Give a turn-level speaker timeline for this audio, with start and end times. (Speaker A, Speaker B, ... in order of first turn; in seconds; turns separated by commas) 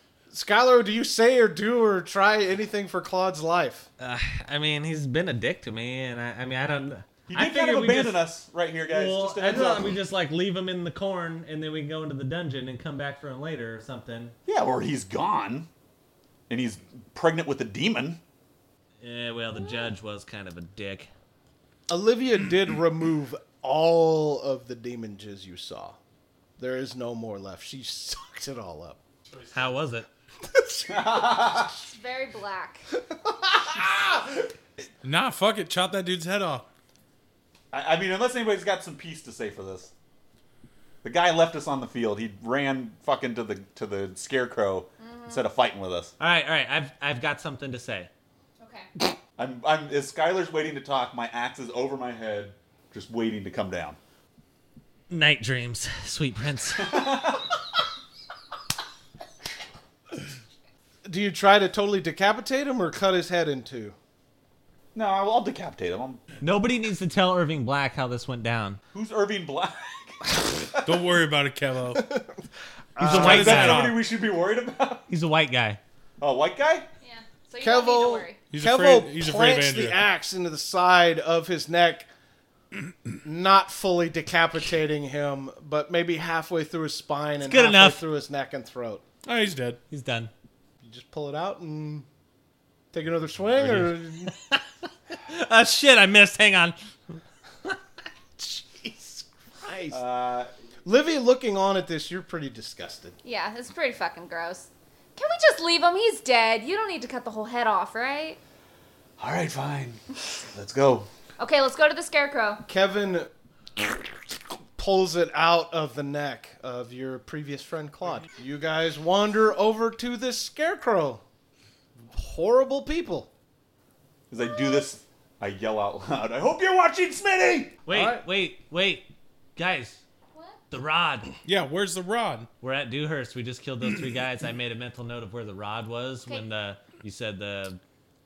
Speaker A: 0.3-3.9, Speaker B: 4.0-8.2, Speaker C: 7.3-10.0, Speaker B: 8.9-14.3, Speaker C: 14.5-15.7, Speaker C: 16.5-18.2, Speaker B: 19.0-21.1, Speaker A: 21.9-26.0, Speaker A: 26.6-29.0, Speaker B: 29.5-30.1, Speaker A: 30.5-31.1, Speaker C: 30.9-31.7, Speaker D: 31.6-32.9, Speaker A: 33.4-34.3, Speaker E: 35.0-36.6, Speaker C: 37.7-39.9, Speaker C: 41.0-46.1, Speaker D: 45.0-45.5, Speaker B: 46.2-48.1, Speaker D: 48.6-48.9, Speaker C: 49.4-54.0, Speaker B: 55.1-57.1, Speaker C: 56.8-57.5, Speaker A: 61.0-64.0, Speaker C: 64.9-66.2, Speaker B: 66.4-68.8, Speaker C: 68.9-71.0, Speaker E: 70.8-72.1, Speaker A: 71.9-72.3, Speaker A: 73.0-73.8, Speaker B: 73.0-73.9, Speaker C: 73.0-75.0, Speaker E: 73.1-73.9, Speaker B: 75.1-75.8, Speaker C: 76.2-76.9, Speaker D: 77.0-78.4, Speaker A: 77.6-82.1, Speaker E: 78.5-80.0, Speaker A: 83.2-89.0, Speaker B: 87.4-88.0, Speaker E: 89.2-89.8, Speaker B: 89.9-90.3, Speaker A: 90.8-92.0, Speaker A: 92.9-94.3, Speaker B: 93.7-94.6, Speaker B: 95.3-96.8, Speaker A: 98.4-100.0, Speaker C: 99.9-100.5, Speaker A: 100.8-103.2, Speaker D: 103.2-108.4, Speaker C: 109.2-111.1, Speaker D: 111.4-112.6, Speaker A: 112.7-121.2, Speaker A: 122.1-123.3, Speaker C: 124.3-127.8, Speaker B: 127.8-130.0, Speaker A: 127.9-128.2, Speaker D: 130.3-130.6, Speaker B: 130.7-131.3, Speaker E: 131.4-132.5, Speaker B: 132.6-137.8